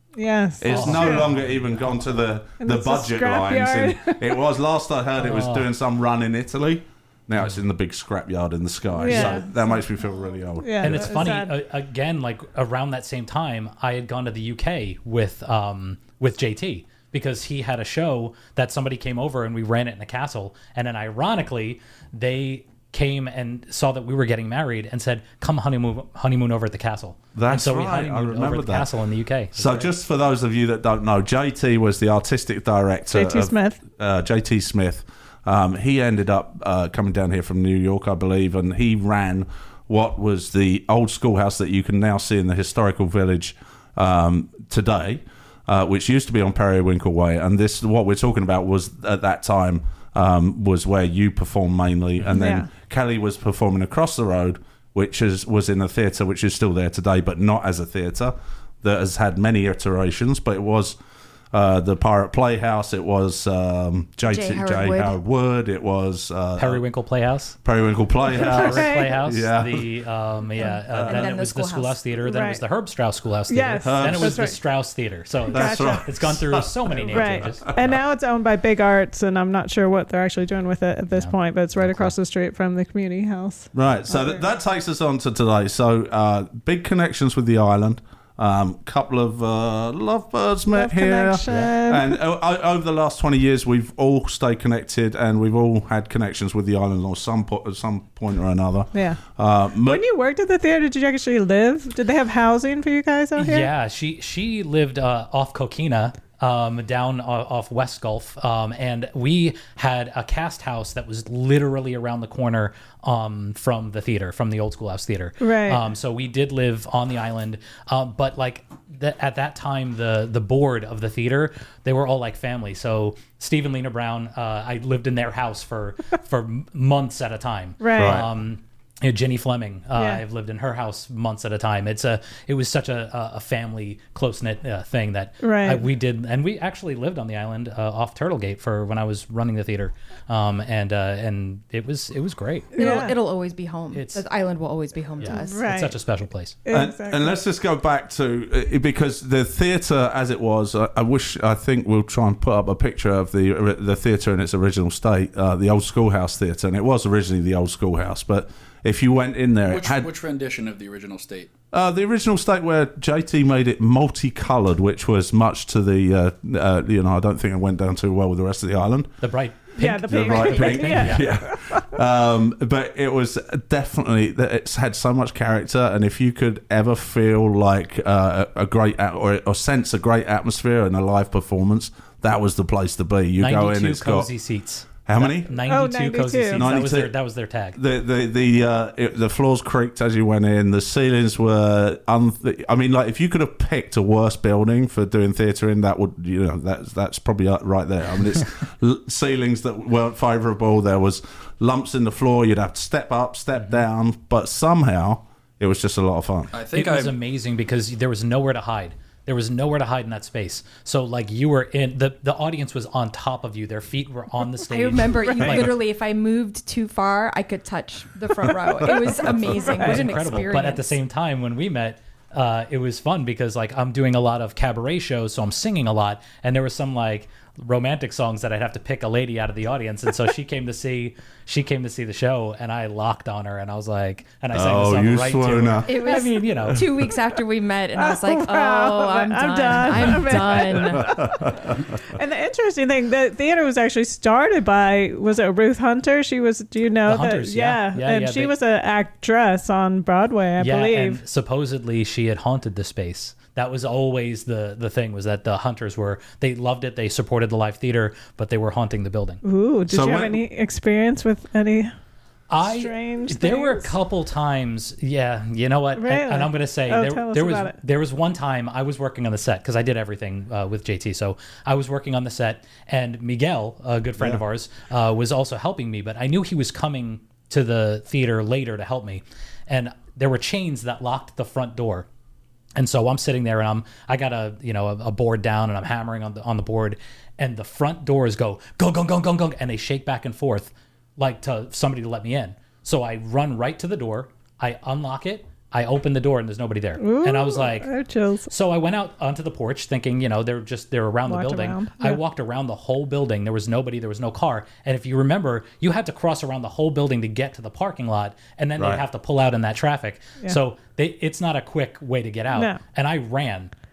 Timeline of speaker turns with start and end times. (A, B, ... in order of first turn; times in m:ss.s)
0:00.1-0:01.3 A
0:00.6-0:11.2 B
0:00.6-0:02.0 C
0:02.6-0:04.4 A
0:05.2-0:05.7 C
0:09.0-0:09.8 A
0:09.1-0:09.4 C
0:10.6-0:11.5 A
0:10.8-0:29.9 C
0:27.3-0:28.9 B
0:29.5-1:01.0 B
0:33.1-0:33.8 A
0:52.3-0:52.7 A
1:01.5-1:06.8 B
1:04.3-1:05.2 D
1:06.6-1:07.6 C
1:07.6-1:09.9 B
1:08.2-1:18.0 C
1:08.3-1:09.2 A
1:10.9-1:11.3 B
1:11.0-1:12.0 D
1:12.2-1:12.6 A
1:13.5-1:14.6 A
1:13.8-1:14.5 B
1:15.5-1:16.1 A
1:15.5-1:17.8 B
1:17.1-1:24.4 A
1:21.1-1:22.1 C
1:23.7-1:40.0 B
1:30.7-1:32.2 A
1:31.5-1:31.7 C
1:38.9-1:39.2 A
1:39.8-1:43.7 A
1:43.4-2:23.1 C
1:55.4-1:55.8 A
2:07.8-2:08.2 A
2:08.0-2:08.3 B
2:10.0-2:10.2 A
2:15.4-2:15.9 A
2:22.8-2:25.7 D
2:22.8-2:23.2 A
2:23.9-2:24.2 C
2:25.2-2:26.6 C
2:25.2-2:26.0 A
2:26.6-2:27.4 A
2:26.7-2:40.1 B
2:39.7-2:41.5 E
2:41.7-2:49.2 B
2:49.2-2:51.4 C
2:49.8-2:51.9 A
2:50.1-3:04.3 B
3:03.4-3:07.8 C
3:05.0-3:05.5 B
3:05.6-3:06.6 A
3:06.5-3:07.1 B
3:07.7-3:26.5 B
3:26.5-3:27.1 E
3:26.7-3:35.8 C
3:34.6-3:41.0 D
3:35.1-3:35.6 A
3:39.6-3:40.0 A
3:39.6-3:56.8 C
3:54.5-3:56.0 B
3:55.8-4:01.3 D
3:58.0-4:11.2 A
4:01.0-4:01.8 B
4:07.0-4:08.5 C
4:10.6-4:19.4 C
4:19.4-4:21.9 A
4:19.9-4:20.4 B
4:22.5-4:42.1 C
4:22.6-4:23.9 A
4:26.0-4:27.8 A
4:42.8-4:57.9 C
4:57.0-4:58.5 A
4:58.5-5:13.7 C
5:01.3-5:02.2 A
5:08.8-5:09.0 B